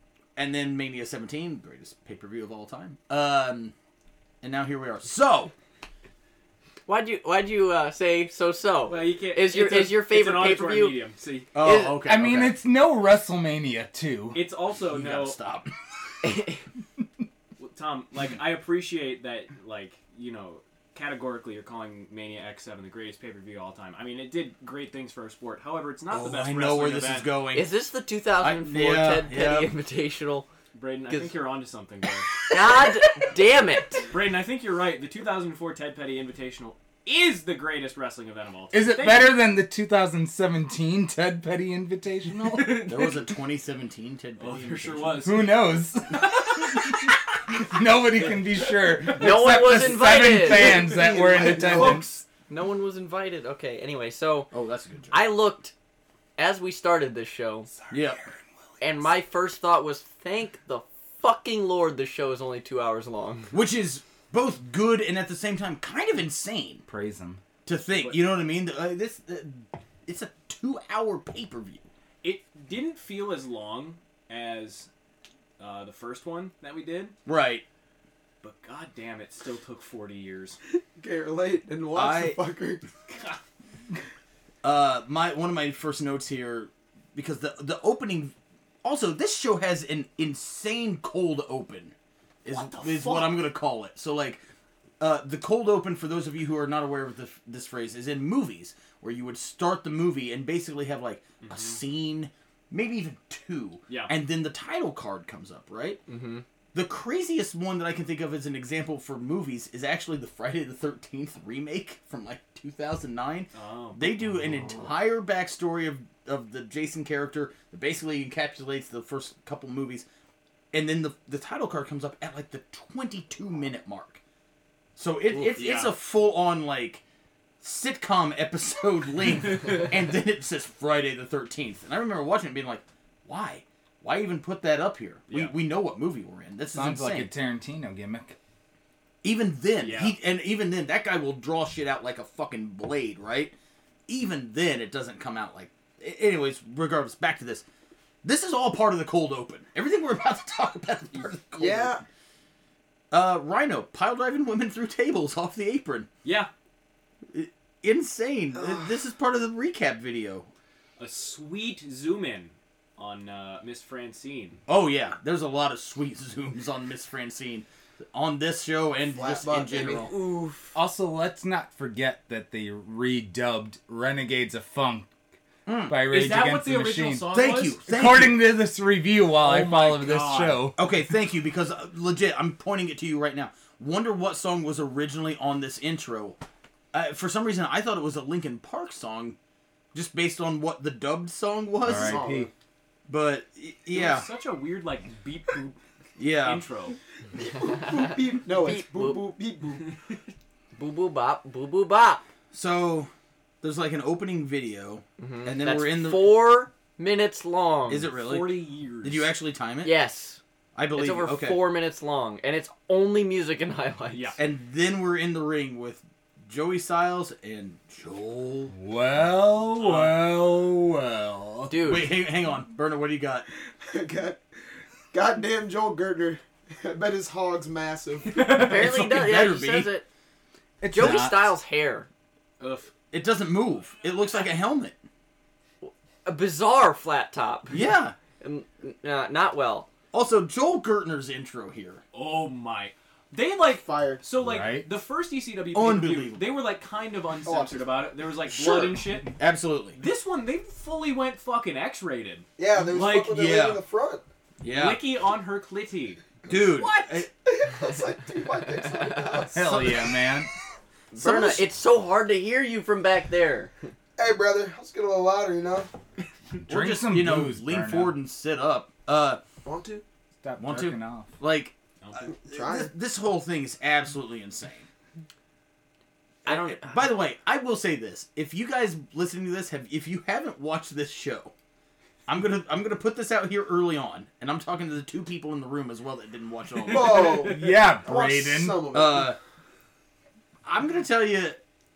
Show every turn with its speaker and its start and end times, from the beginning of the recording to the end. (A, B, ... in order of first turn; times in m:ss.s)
0:00.4-0:03.7 A
0:04.4-0:05.5 A
0:06.9-0:11.0 B
0:08.9-0:11.5 C
0:11.5-0:12.6 A
0:11.6-0:12.0 B
0:12.0-0:14.4 D
0:14.3-0:15.4 C
0:14.8-0:15.7 A
0:16.3-0:16.6 B
0:17.6-0:27.3 C
0:26.1-0:27.7 A
0:27.5-0:30.5 B
0:28.4-0:29.7 A
0:30.7-0:32.4 C
0:32.5-0:34.1 B
0:34.1-0:39.4 C
0:38.7-0:42.9 D
0:42.4-0:43.3 C
0:42.9-0:45.3 A
0:44.4-0:45.5 C
0:45.2-0:52.1 D
0:49.1-0:54.5 B
0:50.4-0:52.1 E
0:54.5-0:55.2 A
0:55.1-0:55.7 B
0:56.4-0:57.7 B
0:57.7-0:58.5 D
0:57.9-0:58.2 A
0:58.8-1:03.5 B
1:03.5-1:06.8 A
1:06.9-1:07.4 D
1:07.6-1:11.9 A
1:08.0-1:08.2 C
1:12.2-1:14.9 C
1:15.6-1:17.2 C
1:17.3-1:17.6 A
1:18.4-1:20.6 C
1:21.0-1:22.8 E
1:21.9-1:22.4 A
1:23.1-1:23.4 C
1:24.6-1:31.9 A
1:32.4-1:34.4 A
1:32.5-1:33.4 C
1:35.0-1:46.0 A
1:41.4-1:41.8 C
1:46.1-1:46.4 B
1:46.7-2:00.1 A
1:53.5-1:54.1 C
2:00.7-2:04.2 A
2:05.0-2:07.0 A
2:05.4-2:05.9 C
2:07.6-2:17.3 A
2:16.7-2:18.4 D
2:19.2-2:23.5 A
2:19.8-2:20.2 C
2:24.1-2:27.7 A
2:28.2-2:32.0 A
2:31.6-2:32.0 E
2:33.1-2:36.1 A
2:36.2-2:36.5 C
2:37.3-2:40.5 A
2:41.0-2:44.6 C
2:44.7-2:50.1 A
2:49.1-2:50.1 E
2:50.0-2:50.7 B
2:50.8-2:55.1 D
2:55.7-2:56.0 A
2:55.9-3:00.8 D
2:56.1-2:57.8 C
2:57.3-2:58.5 A
2:59.4-3:00.7 C
3:00.8-3:06.4 A
3:06.9-3:09.4 A
3:09.9-3:12.3 A
3:11.8-3:12.5 D
3:11.9-3:12.5 E
3:13.1-3:14.3 A
3:13.9-3:17.0 C
3:16.2-3:16.7 A
3:17.4-3:19.9 E
3:18.5-3:19.2 B
3:20.7-3:22.2 B
3:22.5-3:23.1 A
3:23.6-3:26.5 A
3:25.2-3:28.1 B
3:27.9-3:29.9 A
3:28.1-3:29.3 C
3:29.8-3:30.4 B
3:30.8-3:31.7 A
3:31.0-3:34.4 B
3:34.1-3:34.4 C
3:34.4-3:38.7 A
3:38.7-3:41.8 D
3:39.8-3:40.2 C
3:41.7-3:42.2 B
3:41.8-3:43.4 A
3:43.8-3:44.4 E
3:45.1-3:48.5 E
3:48.3-3:48.8 C
3:48.5-3:50.1 B
3:48.5-3:50.0 A
3:50.8-3:51.6 D
3:50.9-3:52.1 B
3:52.6-3:52.9 C
3:53.1-3:55.0 A
3:55.8-3:59.9 B
3:57.7-3:58.2 A
4:00.1-4:02.0 A
4:02.1-4:09.3 C
4:03.8-4:04.2 E
4:04.4-4:04.9 D
4:05.7-4:06.5 A
4:07.4-4:07.9 E
4:08.6-4:09.0 E
4:09.4-4:10.0 A
4:10.0-4:13.4 C
4:12.6-4:14.2 E
4:13.3-4:13.8 A
4:14.6-4:15.0 A
4:14.7-4:17.2 C
4:16.5-4:17.3 A
4:17.4-4:20.1 E
4:19.1-4:19.5 B
4:19.5-4:20.5 D
4:21.1-4:23.7 B
4:21.1-4:21.7 E
4:24.2-4:25.9 E
4:26.7-4:28.2 D
4:26.7-4:29.4 A
4:29.6-4:30.0 E
4:30.4-4:31.3 D
4:30.6-4:34.9 A
4:32.0-4:32.3 C
4:32.4-4:32.9 E
4:36.4-4:37.1 B
4:36.4-4:41.5 A
4:42.3-4:47.5 A
4:46.8-4:47.8 C
4:46.8-4:49.4 E
4:47.4-4:48.8 D
4:48.9-4:49.4 A
4:50.6-4:51.6 A